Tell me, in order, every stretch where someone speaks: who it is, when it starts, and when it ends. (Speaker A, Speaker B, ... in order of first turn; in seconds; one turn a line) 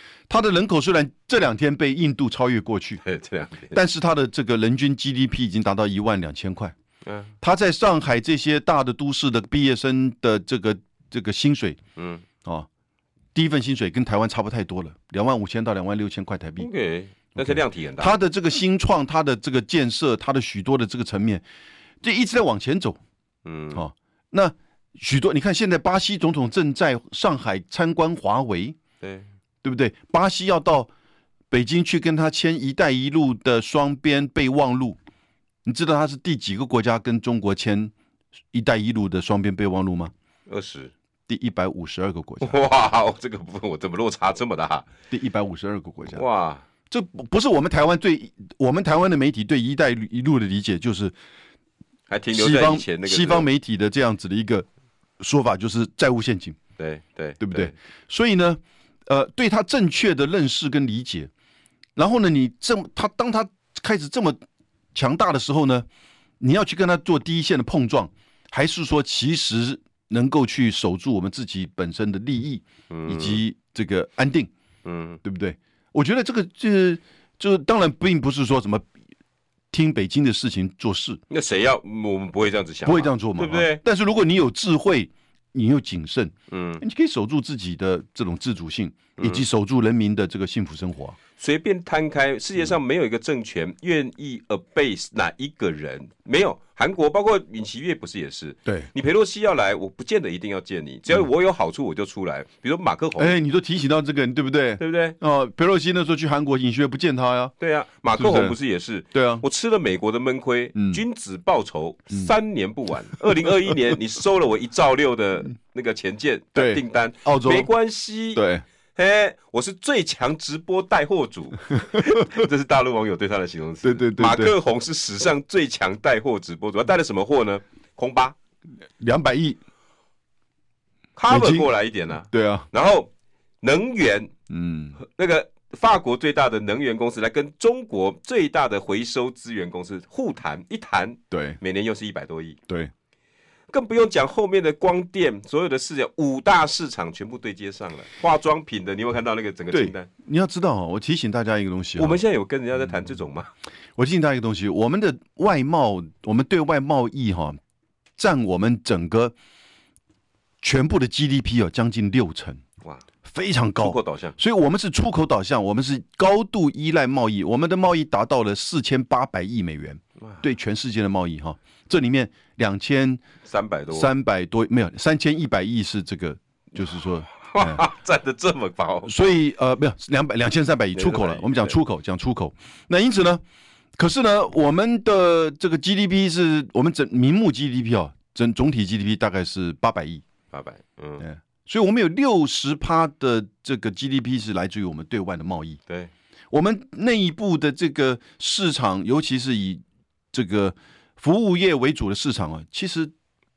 Speaker A: 0.3-3.0
Speaker B: 3.0-3.8
Speaker A: 3.7-6.7
Speaker B: 7.0-7.3
Speaker A: 7.4-11.8
Speaker B: 12.0-12.2
Speaker A: 13.3-16.7
Speaker B: 16.6-18.1
Speaker A: 17.4-21.4
Speaker A: 22.0-23.0
Speaker B: 23.4-23.8
Speaker A: 23.7-28.8
Speaker B: 29.0-29.2
Speaker A: 29.6-30.9
Speaker A: 31.5-35.0
Speaker A: 35.6-37.9
Speaker A: 38.5-40.1
Speaker B: 40.5-40.9
Speaker A: 41.3-42.6
Speaker B: 42.4-44.9
Speaker A: 45.1-46.2
Speaker B: 46.1-46.6
Speaker A: 46.9-51.1
Speaker B: 52.1-53.5
Speaker A: 52.3-54.6
Speaker A: 55.2-56.6
Speaker B: 56.8-57.7
Speaker A: 57.4-61.3
Speaker A: 62.0-64.4
Speaker A: 64.9-65.9
Speaker A: 66.4-74.5
Speaker B: 72.9-73.4
Speaker B: 74.8-75.2
Speaker A: 75.2-78.8
Speaker A: 79.7-81.2
Speaker B: 81.3-83.8
Speaker A: 82.8-91.2
Speaker B: 86.5-86.8
Speaker B: 89.2-89.4
Speaker B: 91.4-103.4
Speaker A: 103.2-107.5
Speaker B: 104.8-105.2
Speaker B: 107.6-118.4
Speaker A: 108.2-108.6
Speaker A: 109.1-109.4
Speaker A: 110.7-111.0
Speaker A: 113.2-113.7
Speaker A: 116.5-117.7
Speaker A: 118.3-118.6
Speaker B: 119.0-128.3
Speaker A: 123.8-124.5
Speaker A: 129.0-129.6
Speaker B: 131.2-133.1
Speaker A: 131.3-131.7
Speaker A: 132.2-132.7
Speaker B: 133.6-134.3
Speaker A: 134.5-135.0
Speaker B: 135.0-142.6
Speaker A: 141.3-141.6
Speaker B: 143.7-150.1
Speaker A: 149.7-152.2
Speaker B: 152.0-153.5
Speaker A: 154.0-157.6
Speaker A: 158.2-159.3
Speaker A: 160.6-162.6
Speaker A: 163.2-173.2
Speaker B: 163.8-164.3
Speaker B: 173.4-174.1
Speaker A: 173.9-177.8
Speaker B: 177.3-179.1
Speaker A: 179.1-183.4
Speaker B: 180.9-181.8
Speaker A: 184.0-190.2
Speaker B: 190.5-191.2
Speaker A: 191.2-195.8
Speaker A: 196.5-203.1